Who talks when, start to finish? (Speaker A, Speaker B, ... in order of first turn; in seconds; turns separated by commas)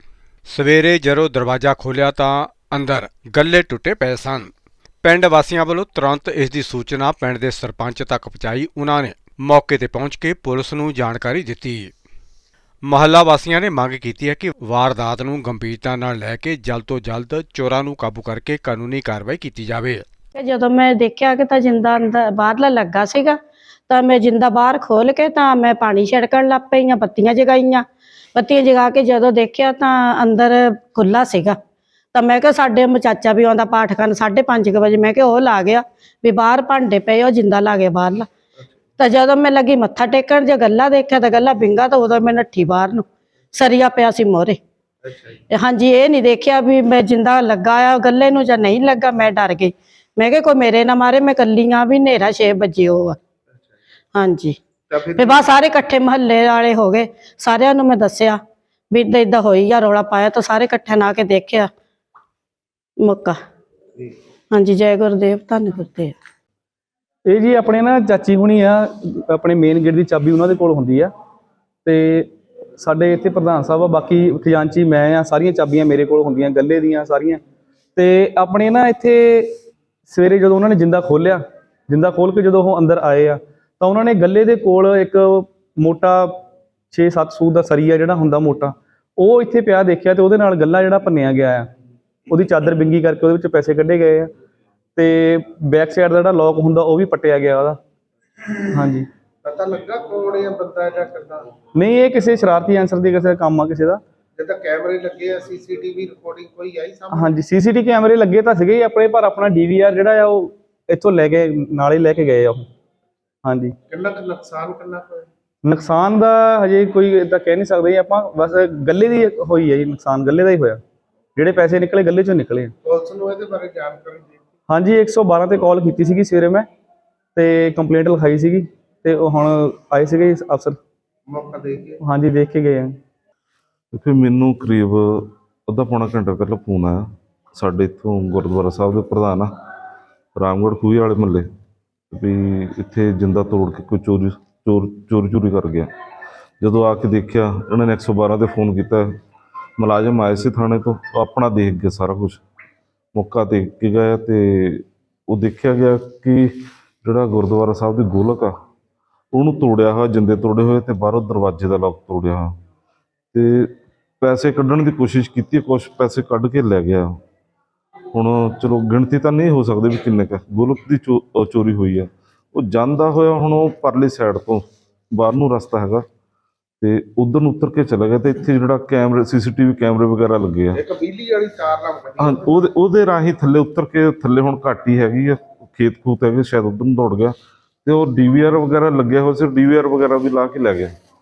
Speaker A: 0.5-4.5, Speaker A: 5.0-11.9, Speaker A: 12.8-20.0, Speaker B: 20.3-27.8, Speaker B: 28.3-31.6, Speaker B: 32.1-38.2, Speaker B: 39.0-43.0, Speaker B: 43.5-44.6, Speaker C: 45.0-45.4, Speaker B: 45.5-53.1, Speaker B: 54.1-54.6, Speaker C: 54.9-55.5, Speaker B: 55.1-58.4, Speaker B: 58.9-61.7, Speaker B: 63.0-63.4, Speaker B: 64.5-66.1, Speaker D: 67.2-71.1, Speaker D: 71.8-77.4, Speaker D: 78.0-91.7, Speaker D: 92.3-94.3, Speaker D: 95.0-97.8, Speaker D: 98.7-99.1, Speaker C: 99.4-101.5, Speaker D: 101.7-104.0, Speaker C: 104.4-107.4, Speaker D: 107.1-112.7, Speaker D: 113.4-113.7, Speaker C: 113.9-115.3, Speaker D: 115.6-120.8, Speaker D: 121.3-122.7, Speaker C: 122.8-124.5, Speaker D: 124.7-126.7, Speaker D: 127.3-130.8, Speaker C: 131.3-132.0, Speaker D: 132.0-133.0, Speaker E: 133.9-137.0, Speaker E: 137.6-139.5, Speaker E: 140.3-141.4, Speaker E: 142.1-145.9, Speaker E: 146.6-149.1, Speaker E: 149.8-152.4, Speaker E: 153.1-158.5, Speaker E: 159.3-162.6, Speaker E: 163.3-167.2, Speaker E: 168.1-176.0, Speaker E: 176.8-180.8, Speaker C: 180.7-182.6, Speaker E: 182.2-190.9